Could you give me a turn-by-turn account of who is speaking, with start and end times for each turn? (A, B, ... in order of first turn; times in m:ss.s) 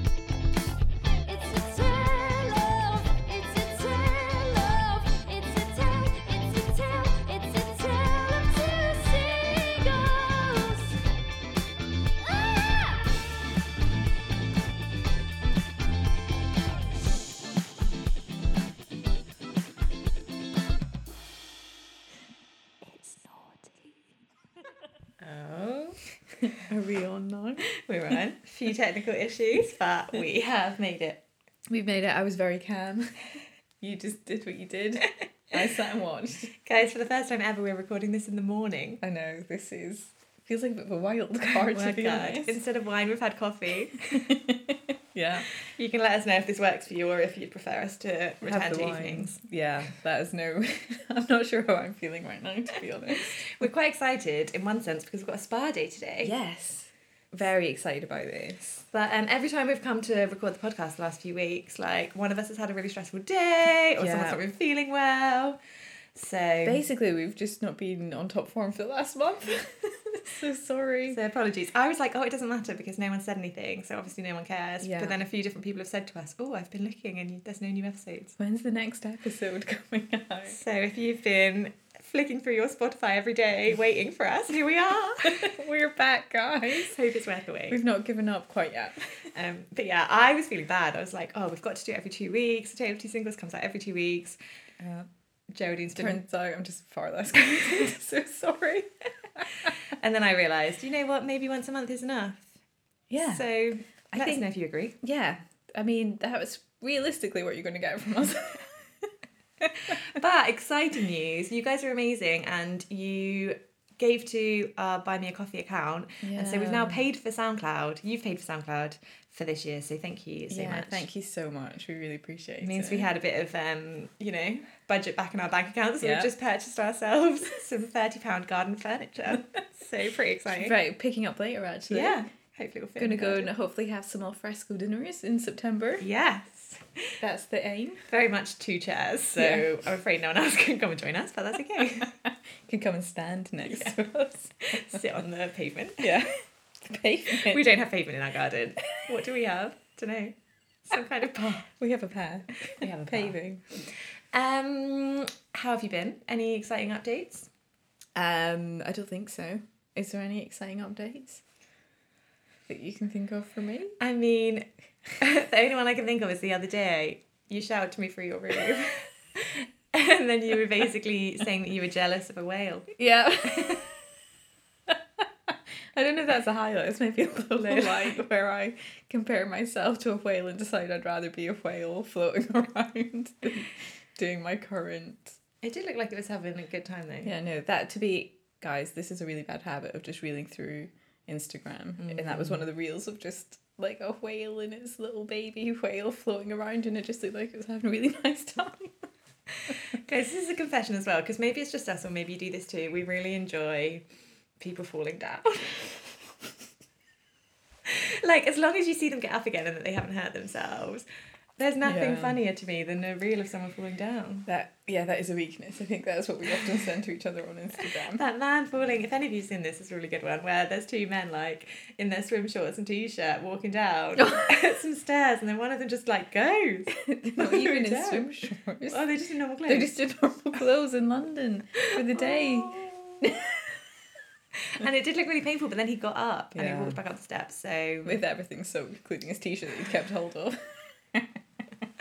0:01.3-0:11.0 A
0:12.2-0:13.1 A
0:25.2-0:26.0 B
0:26.4-0:27.7 C
0:27.7-0:31.2 B
0:31.7-0:36.6 C
0:36.6-0:39.0 B
0:39.0-0:42.6 C
0:41.6-0:44.2 B
0:44.1-0:45.5 C
0:45.6-0:49.4 B
0:48.4-0:53.6 C
0:53.1-0:56.3 B
0:56.2-0:58.8 C
0:58.9-1:05.6 B
1:04.0-1:04.4 C
1:06.1-1:06.8 B
1:06.6-1:11.2 C
1:11.1-1:18.4 B
1:14.8-1:15.2 C
1:18.4-1:20.6 C
1:20.5-1:25.5 B
1:25.2-1:27.0 C
1:26.7-1:27.8 B
1:27.7-1:29.3 C
1:29.3-1:36.2 B
1:36.0-1:39.8 C
1:39.9-1:42.5 B
1:43.1-1:43.5 C
1:43.2-1:45.0 B
1:44.1-1:44.5 C
1:45.0-1:50.0 C
1:49.9-2:01.1 B
1:56.2-1:57.0 C
2:00.5-2:03.1 C
2:02.6-2:10.7 B
2:06.0-2:06.3 C
2:10.6-2:12.2 C
2:11.9-2:13.5 B
2:13.0-2:16.1 C
2:16.0-2:17.0 B
2:17.2-2:18.1 C
2:18.1-2:22.1 B
2:19.4-2:19.6 C
2:22.0-2:25.0 C
2:23.6-2:24.0 B
2:24.7-2:26.1 B
2:26.0-2:27.7 C
2:27.3-2:31.7 B
2:31.7-2:33.6 C
2:32.7-2:37.5 B
2:38.2-2:41.4 C
2:42.7-2:44.0 C
2:44.0-2:44.7 B
2:45.2-2:52.9 B
2:53.0-2:54.0 C
2:53.4-2:53.9 B
2:54.9-3:05.4 C
2:57.6-2:58.2 B
3:05.6-3:07.3 B
3:07.2-3:19.1 C
3:12.0-3:12.7 B
3:19.9-3:24.0 B
3:24.6-3:26.2 B
3:27.9-3:34.5 B
3:31.8-3:32.4 C
3:34.5-3:38.2 C
3:37.9-3:48.4 B
3:44.2-3:44.5 C
3:47.0-3:49.1 C
3:48.9-3:49.9 B
3:49.7-3:53.8 C
3:52.0-3:53.2 B
3:54.6-3:58.2 B
3:56.6-3:57.0 C
3:58.0-4:01.4 C